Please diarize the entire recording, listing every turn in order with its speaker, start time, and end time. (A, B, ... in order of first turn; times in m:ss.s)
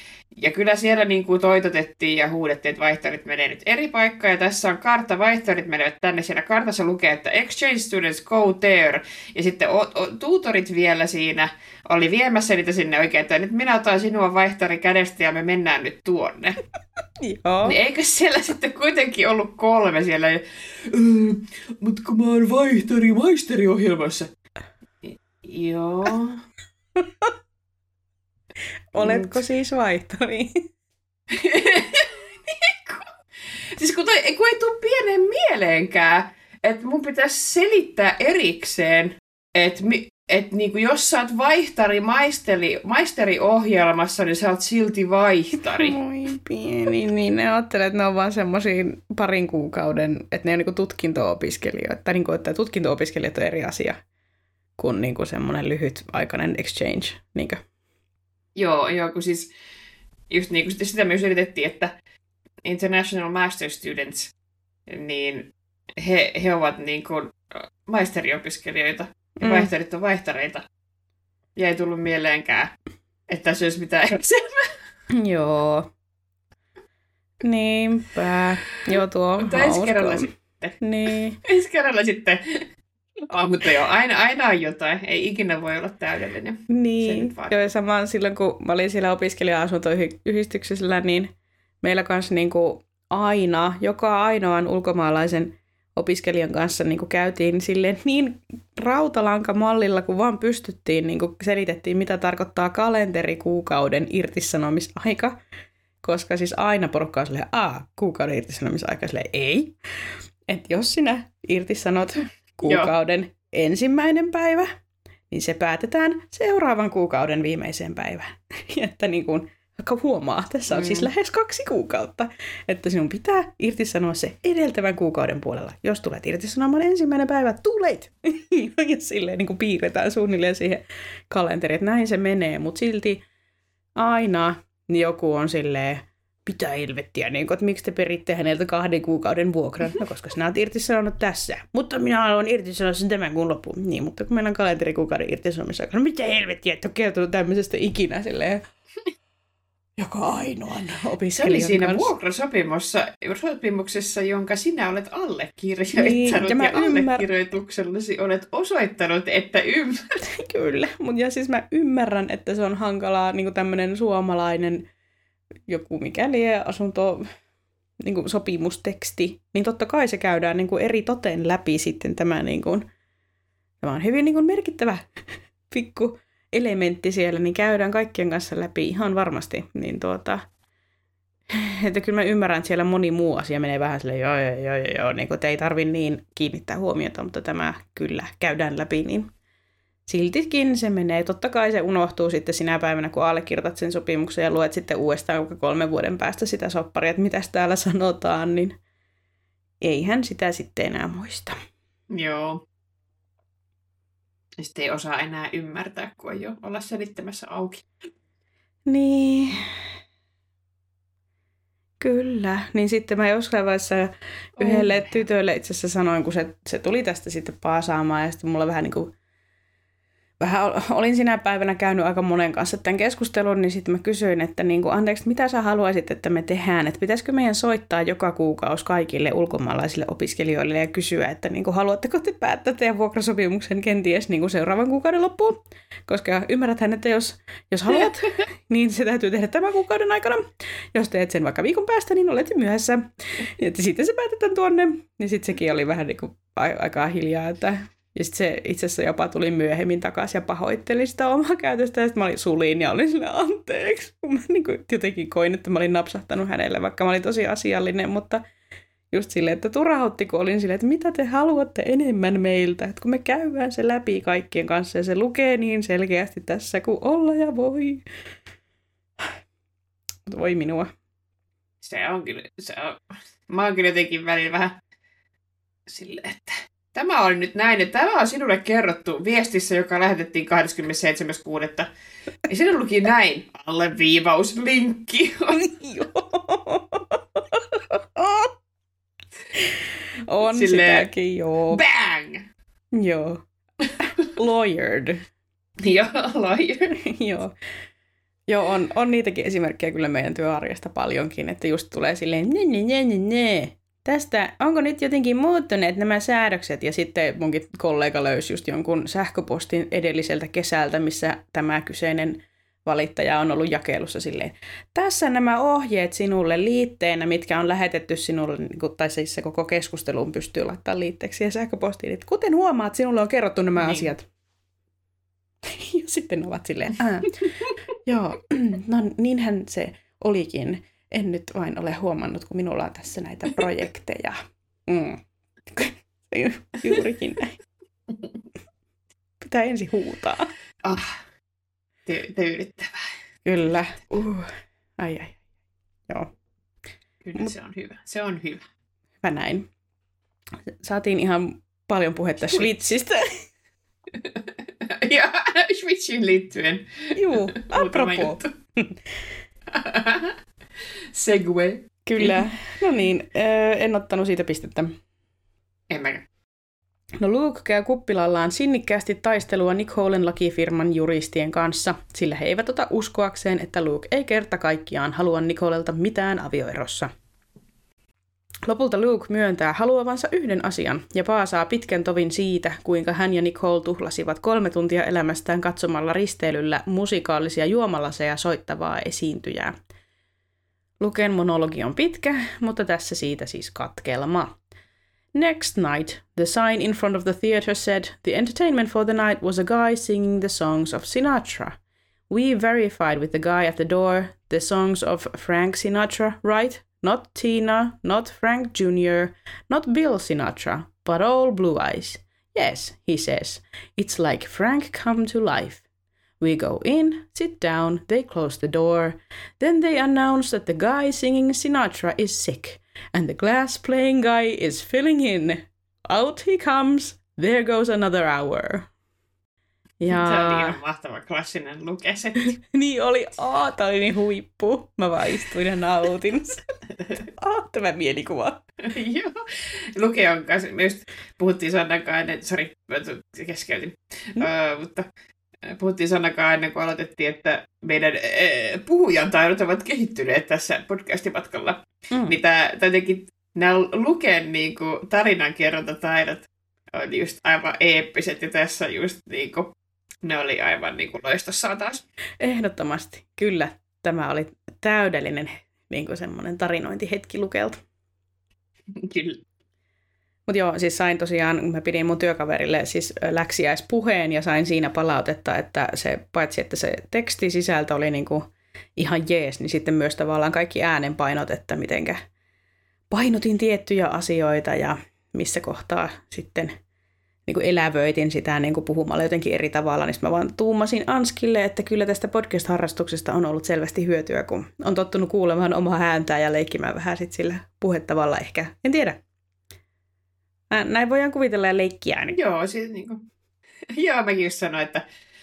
0:00.4-0:16.6 A
0:17.2-0:17.8 B
0:17.6-0:24.3 A
0:25.0-0:26.4 A
0:27.0-0:27.3 B
0:28.9-0:30.5 B
0:29.0-0:29.4 A
0:31.3-0:33.1 A
0:33.7-0:46.0 A
0:45.6-0:54.0 B
0:54.8-0:57.6 B
0:58.6-0:59.5 A
1:00.3-1:01.9 A
1:02.6-1:04.3 A
1:04.9-1:10.6 A
1:09.4-1:09.7 B
1:11.6-1:12.7 A
1:13.3-1:14.7 A
1:15.1-1:15.9 B
1:17.4-1:20.3 B
1:19.4-1:20.8 A
1:20.8-1:21.4 B
1:21.4-1:22.6 A
1:23.2-1:27.7 A
1:26.7-1:45.4 B
1:46.0-1:49.7 B
1:50.5-1:54.7 B
1:52.6-1:52.9 A
1:55.3-2:13.2 B
2:00.7-2:01.1 A
2:14.0-2:28.6 B
2:30.0-2:32.1 B
2:31.4-2:40.2 A
2:36.0-2:37.2 B
2:40.2-2:44.9 B
2:45.7-2:47.3 B
2:48.0-2:52.9 B
2:53.8-3:00.4 B
3:01.5-3:09.3 B
3:10.1-3:18.8 B
3:19.8-3:21.6 B
3:22.1-3:22.6 A
3:24.6-3:27.8 A
3:28.9-3:29.8 B
3:32.0-3:39.1 B
3:34.6-3:35.2 A
3:40.4-4:18.4 B
4:19.1-4:28.0 B
4:30.2-4:30.9 B
4:31.8-4:34.8 A
4:35.9-4:41.9 A
4:42.4-4:45.6 A
4:45.5-4:48.5 B
4:49.5-4:51.8 B
4:50.5-4:51.1 A
4:51.7-4:52.4 A
4:52.9-4:53.4 B
4:54.0-4:55.2 B
4:55.8-4:57.0 A
4:57.0-4:57.5 B
4:58.5-5:24.3 B
5:23.8-5:24.1 A
5:25.6-5:37.6 B
5:39.4-5:40.5 B
5:40.8-5:41.2 A
5:42.0-5:43.1 A
5:43.4-5:45.4 B
5:47.2-5:48.6 A
5:49.2-5:49.7 B
5:50.8-5:53.4 B
5:54.2-5:58.5 A
5:57.1-5:59.0 B
5:59.7-6:00.4 A
6:01.1-6:02.4 A
6:02.0-6:05.0 B
6:05.9-6:06.2 A
6:07.2-6:17.1 B
6:18.6-6:29.7 B
6:31.0-6:34.6 B
6:35.3-6:41.8 B
6:42.3-6:55.8 B
6:56.4-7:08.9 B
7:10.0-7:10.8 B
7:10.1-7:12.6 A
7:12.6-7:16.6 B
7:17.3-7:18.6 B
7:18.8-7:19.4 A
7:20.0-7:25.1 A
7:25.6-7:39.7 A
7:32.1-7:32.4 B
7:40.2-7:42.0 A
7:42.4-7:47.8 B
7:48.9-7:49.4 A
7:50.5-8:02.2 B
8:03.1-8:06.7 B
8:07.4-8:19.2 B
8:20.7-8:22.4 B
8:22.3-8:23.2 A
8:23.9-8:25.0 A